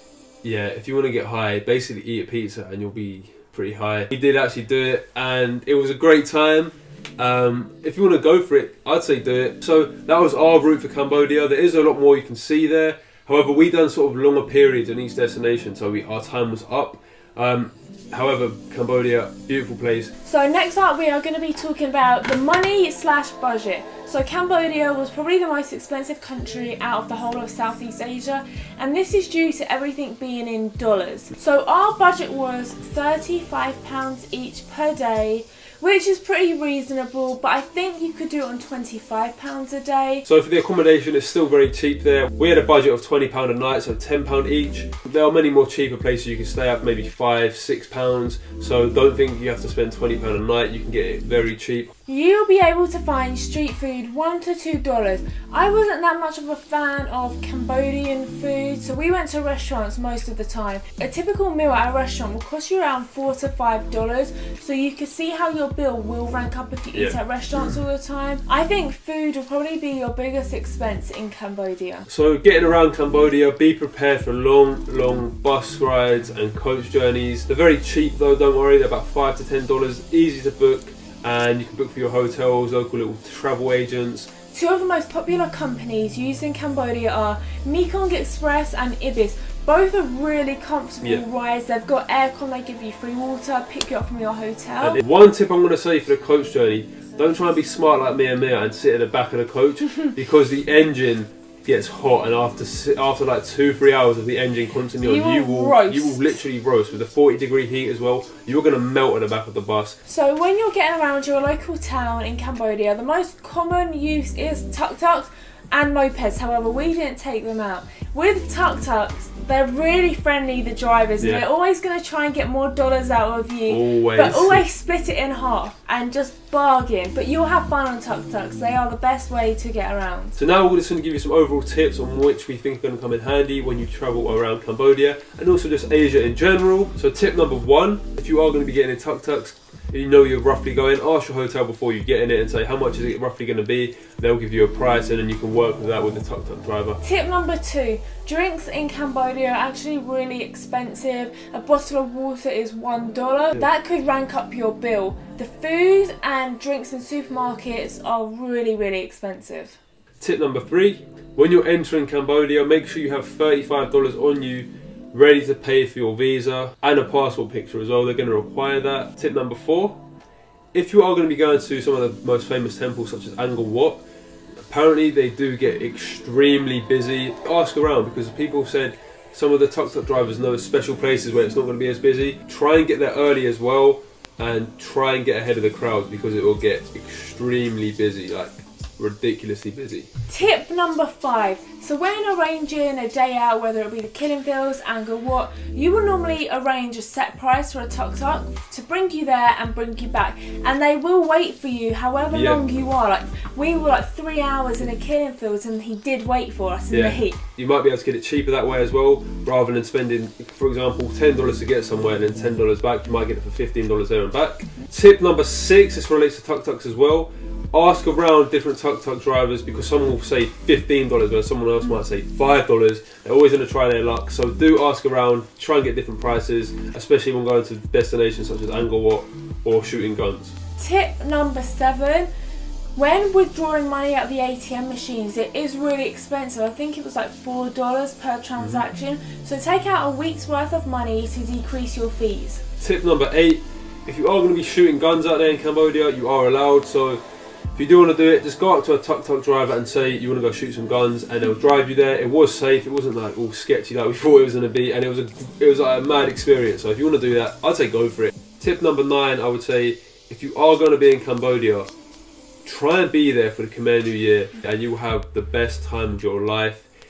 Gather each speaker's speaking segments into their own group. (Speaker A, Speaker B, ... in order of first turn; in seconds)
Speaker A: 0.4-20.1, 40.3-51.9, 66.9-67.8, 72.1-84.3, 94.8-110.0, 123.7-124.6, 130.4-147.0, 160.2-170.0, 170.7-174.0, 174.7-190.1, 202.3-202.6, 206.9-230.6, 238.6-238.8, 242.8-247.2, 247.8-261.9, 262.6-266.9
Speaker B: 20.2-40.3, 52.1-72.1, 84.5-95.0, 105.0-106.3, 110.1-130.4, 147.0-159.8, 190.3-207.4, 230.8-232.3, 232.9-242.6